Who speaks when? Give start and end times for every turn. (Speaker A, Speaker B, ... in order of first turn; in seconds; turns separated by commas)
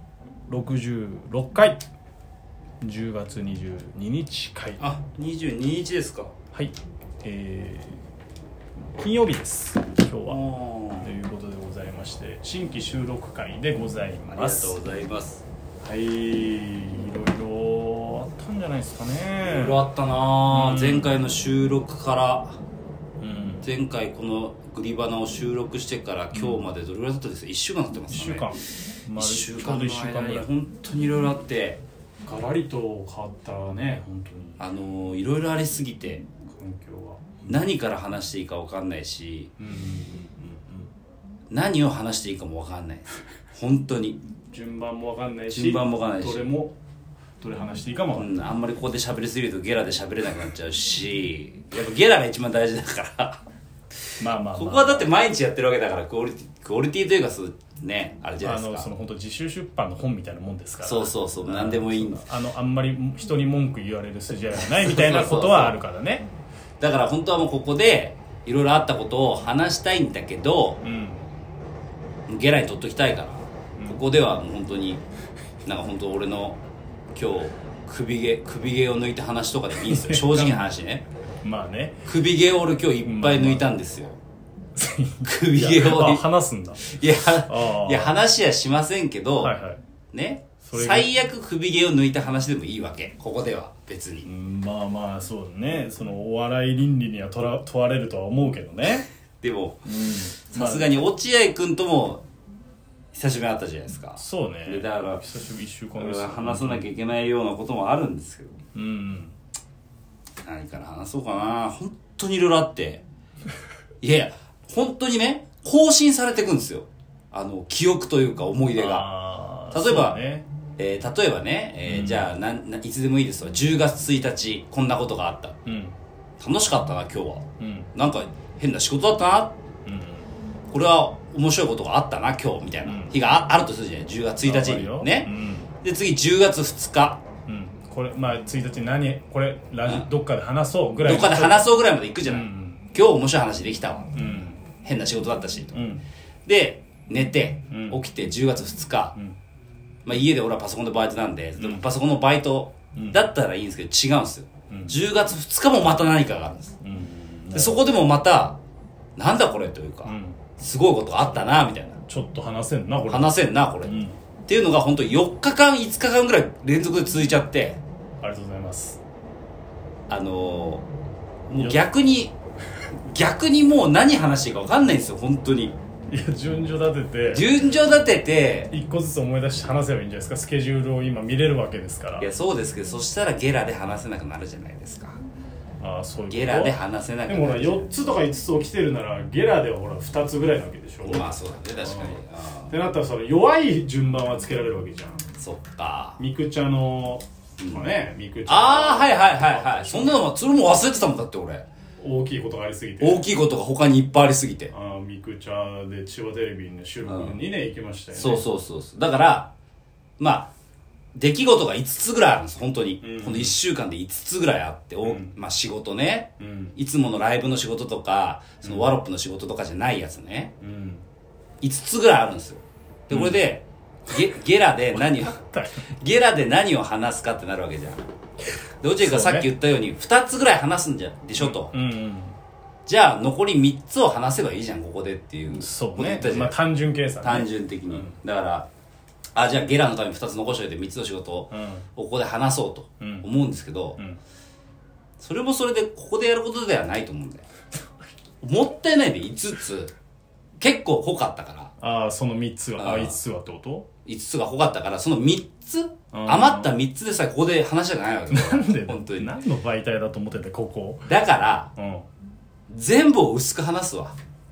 Speaker A: 0.5-1.8, Speaker A: 2.8-4.8, Speaker B: 4.8-6.3, Speaker A: 6.5-8.0, Speaker A: 9.0-14.8, Speaker B: 10.2-11.1, Speaker B: 14.3-15.4, Speaker A: 15.8-19.8, Speaker B: 19.4-22.6, Speaker A: 20.5-21.2, Speaker A: 23.2-23.6, Speaker B: 23.6-28.5, Speaker A: 26.3-26.7, Speaker A: 28.1-30.5, Speaker B: 29.1-31.8, Speaker A: 32.2-34.6, Speaker B: 34.6-36.2, Speaker A: 36.5-37.6, Speaker B: 37.5-39.5, Speaker A: 39.6-40.9, Speaker B: 41.5-44.2, Speaker A: 44.5-46.8, Speaker B: 45.5-46.5, Speaker A: 47.4-48.3, Speaker B: 48.1-53.4, Speaker A: 54.2-55.1, Speaker B: 54.5-58.9, Speaker A: 58.4-66.3, Speaker B: 60.8-62.2, Speaker B: 64.6-65.8, Speaker B: 66.8-70.8, Speaker A: 70.8-71.3, Speaker B: 72.3-75.0, Speaker A: 73.8-74.0, Speaker B: 75.6-76.6, Speaker B: 77.1-81.0, Speaker A: 79.8-80.7, Speaker A: 81.4-82.0, Speaker B: 82.0-84.2, Speaker A: 83.0-83.7, Speaker A: 84.8-86.9, Speaker B: 85.2-86.2, Speaker B: 86.8-89.5, Speaker A: 87.5-88.1, Speaker A: 89.4-89.8, Speaker B: 90.1-94.3, Speaker A: 90.6-91.1, Speaker A: 94.2-99.0, Speaker B: 99.4-99.8, Speaker A: 99.8-100.9, Speaker B: 100.5-102.2, Speaker B: 103.1-105.2, Speaker A: 104.2-106.8, Speaker B: 105.9-108.6, Speaker A: 108.7-109.3, Speaker B: 110.4-113.0, Speaker B: 114.0-119.1, Speaker A: 118.8-120.5, Speaker B: 119.7-120.2, Speaker B: 120.8-125.5, Speaker A: 121.9-122.3, Speaker A: 125.7-126.0, Speaker B: 126.4-129.6, Speaker A: 127.6-127.9, Speaker A: 129.8-130.3, Speaker B: 130.7-135.3, Speaker A: 132.8-133.2, Speaker A: 134.4-135.7, Speaker B: 135.8-137.2, Speaker A: 137.4-142.8, Speaker B: 141.0-145.7, Speaker A: 144.1-144.6, Speaker A: 145.7-146.0, Speaker B: 146.4-149.2, Speaker A: 147.7-148.0, Speaker B: 150.0-156.7, Speaker A: 151.6-151.9, Speaker A: 152.9-153.2, Speaker A: 154.7-155.0, Speaker A: 156.8-157.8, Speaker B: 157.5-158.6, Speaker B: 159.2-162.0, Speaker A: 160.0-160.4, Speaker A: 162.1-164.2, Speaker B: 163.1-163.9, Speaker B: 164.5-167.8, Speaker A: 168.2-169.0, Speaker B: 170.1-170.8, Speaker B: 171.5-172.3, Speaker A: 171.6-171.8, Speaker B: 173.1-175.7, Speaker A: 176.1-177.4, Speaker B: 177.3-178.7, Speaker A: 178.7-182.3, Speaker B: 182.2-185.2, Speaker A: 185.8-186.8, Speaker B: 186.3-187.9, Speaker A: 187.3-195.2, Speaker B: 191.0-192.7, Speaker B: 195.4-196.2, Speaker A: 196.2-200.2, Speaker B: 197.6-197.8, Speaker B: 198.5-201.7, Speaker A: 202.0-203.3, Speaker B: 203.0-204.7, Speaker A: 204.7-208.4, Speaker B: 207.1-207.4, Speaker B: 208.1-209.5, Speaker B: 210.2-210.5, Speaker B: 211.1-220.5, Speaker A: 213.0-213.6, Speaker A: 215.0-215.4, Speaker A: 216.4-216.8, Speaker A: 218.6-219.0, Speaker A: 220.6-221.0, Speaker B: 221.6-225.4, Speaker A: 223.1-223.4, Speaker A: 224.9-225.8, Speaker B: 226.0-228.0, Speaker B: 228.8-231.7, Speaker A: 229.0-229.5, Speaker A: 231.4-232.4, Speaker B: 232.8-236.6, Speaker A: 235.6-238.2, Speaker B: 237.2-238.7, Speaker B: 239.3-244.0, Speaker A: 241.5-241.8, Speaker A: 243.0-243.3, Speaker B: 245.2-247.4, Speaker B: 248.4-249.9, Speaker B: 250.6-251.7, Speaker A: 251.8-253.8, Speaker B: 252.8-253.2, Speaker B: 254.0-259.3, Speaker A: 256.1-256.7, Speaker A: 258.3-261.1, Speaker B: 261.1-261.7, Speaker A: 261.7-262.1, Speaker B: 262.7-264.1